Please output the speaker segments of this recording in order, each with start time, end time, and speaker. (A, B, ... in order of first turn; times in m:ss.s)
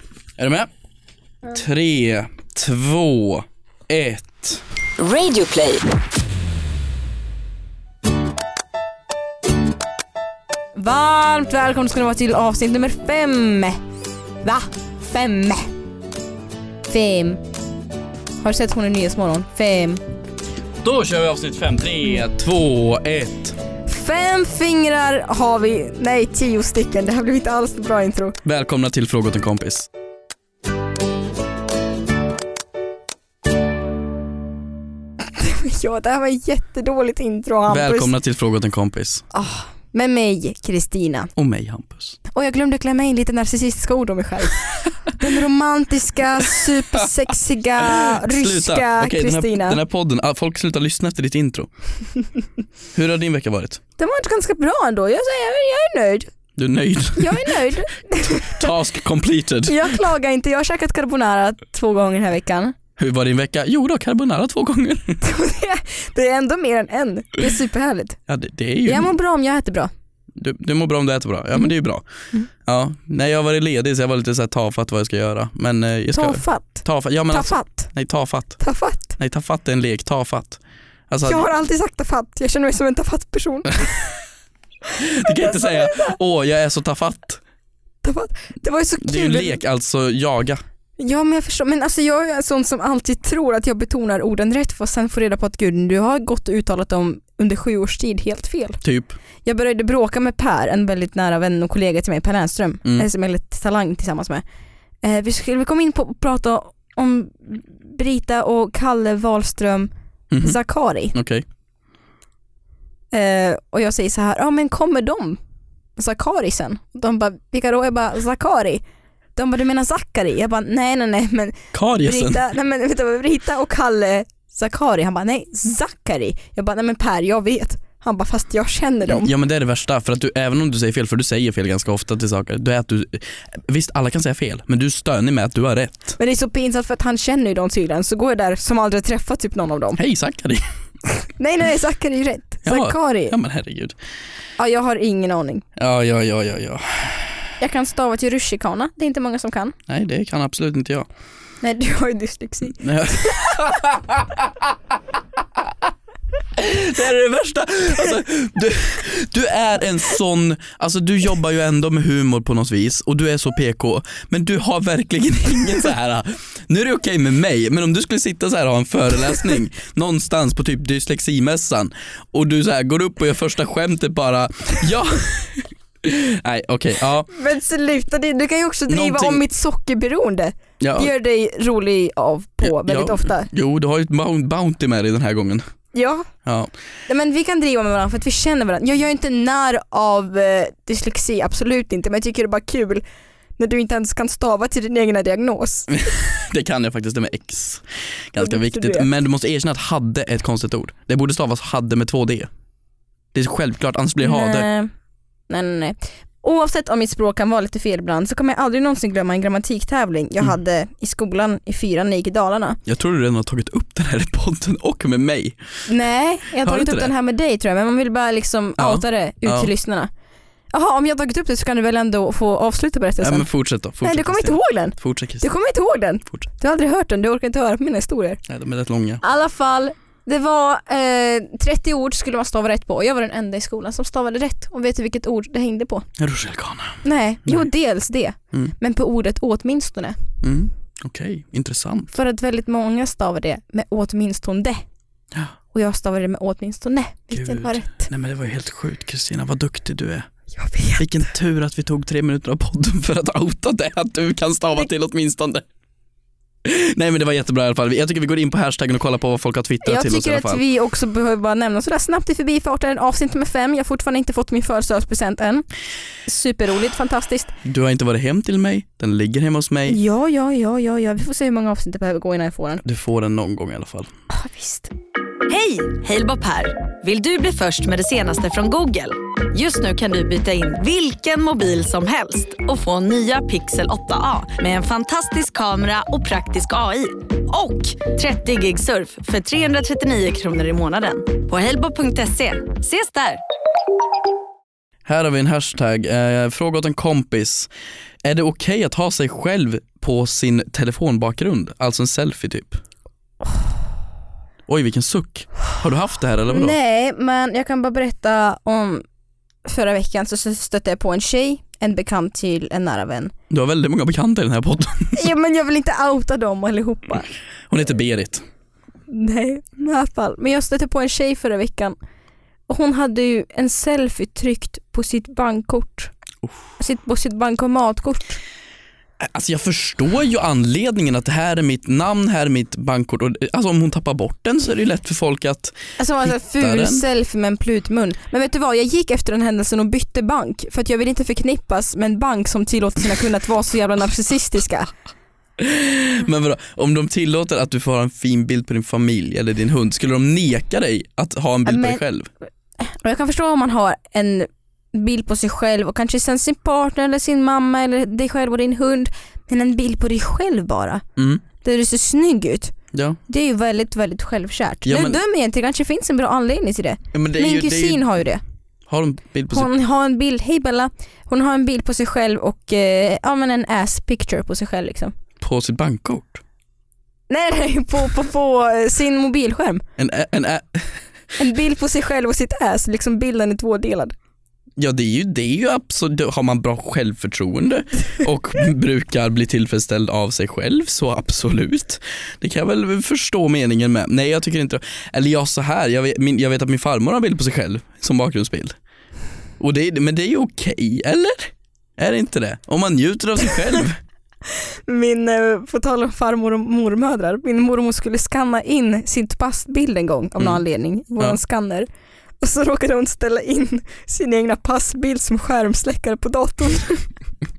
0:00.4-0:00.7 A
0:01.4-0:04.6 A
0:05.0-0:05.8 B
0:10.7-0:13.8 C
0:14.4-0:15.6 C
0:16.9-0:17.4 C
0:18.4-0:20.0 C
0:20.8-0:23.6 A
0:23.8-0:28.4 C
0:28.4-0:29.9 A
0:35.3-0:38.1 C
0:37.7-0:39.2 A
0:39.3-0:41.3 C
0:41.4-0:42.2 A
0:42.3-0:49.8 C
0:47.8-0:51.7 A
0:52.9-0:53.8 A
0:54.0-0:56.3 C
0:56.6-0:57.7 A
0:57.2-0:58.7 C
0:58.2-0:59.9 A
0:59.6-1:02.7 C
1:03.0-1:05.2 A
1:05.2-1:08.2 C
1:08.3-1:09.2 A
1:08.8-1:09.9 C
1:10.4-1:12.0 A
1:12.6-1:18.6 A
1:16.1-1:17.9 C
1:18.6-1:19.2 C
1:19.2-1:21.5 A
1:21.2-1:24.1 C
1:25.0-1:27.4 A
1:25.3-1:26.1 C
1:28.0-1:29.6 C
1:29.0-1:30.6 A
1:31.0-1:38.8 C
1:38.8-1:39.2 A
1:39.4-1:44.4 C
1:45.0-1:49.9 C
1:50.3-1:50.6 A
1:50.4-1:51.1 C
1:51.1-1:51.4 A
1:53.1-1:55.4 C
1:56.0-1:58.8 C
1:59.4-2:09.3 C
2:01.7-2:02.4 A
2:09.0-2:16.2 A
2:16.2-2:20.0 C
2:20.0-2:20.6 A
2:21.3-2:23.4 C
2:22.6-2:24.0 A
2:24.6-2:25.6 C
2:25.8-2:27.4 A
2:27.6-2:29.8 C
2:29.9-2:31.0 A
2:31.6-2:33.4 C
2:32.8-2:34.4 A
2:36.5-2:57.3 A
2:57.3-3:03.5 C
2:58.9-2:59.4 A
3:00.8-3:01.1 A
3:02.6-3:05.6 A
3:05.9-3:06.3 C
3:06.4-3:06.7 A
3:07.1-3:13.0 C
3:13.6-3:15.9 C
3:15.9-3:22.5 A
3:18.4-3:19.1 C
3:23.3-3:24.7 A
3:24.2-3:24.9 C
3:25.5-3:32.8 C
3:32.8-3:35.6 A
3:35.9-3:40.1 C
3:36.6-3:37.1 A
3:38.8-3:39.7 A
3:40.7-3:43.5 C
3:43.2-3:45.4 A
3:44.0-3:48.4 C
3:48.5-3:49.2 A
3:49.2-3:56.1 C
3:56.2-3:57.7 A
3:57.0-4:00.2 C
4:00.4-4:02.1 A
4:02.1-4:04.8 C
4:05.7-4:08.1 C
4:07.3-4:10.3 A
4:10.6-4:11.1 C
4:11.0-4:15.6 A
4:16.6-4:20.6 A
4:19.8-4:25.6 C
4:26.2-4:27.5 C
4:27.6-4:30.0 A
4:29.9-4:32.8 C
4:32.8-4:34.1 A
4:34.3-4:34.9 C
4:35.5-4:53.4 B
4:55.0-4:57.7 A
4:58.2-5:02.8 A
5:04.7-5:06.8 A
5:06.5-5:09.0 C
5:09.6-5:13.3 C
5:13.5-5:15.2 A
5:15.1-5:17.3 C
5:17.7-5:18.4 A
5:19.1-5:22.0 C
5:22.7-5:26.1 C
5:26.8-5:28.4 C
5:29.2-5:37.0 A
5:36.0-5:44.9 C
5:45.6-5:52.3 A
5:51.6-5:52.0 C
5:52.8-6:01.0 C
6:01.2-6:01.4 A
6:01.6-6:02.7 C
6:02.9-6:03.2 A
6:03.3-6:08.4 C
6:04.8-6:05.2 A
6:07.1-6:08.1 A
6:08.9-6:09.7 A
6:09.5-6:15.1 C
6:15.4-6:16.4 A
6:17.3-6:19.8 C
6:20.0-6:20.9 A
6:21.4-6:24.1 C
6:24.8-6:38.8 A
6:39.6-6:44.0 A
6:44.9-6:51.9 C
6:52.4-6:57.1 C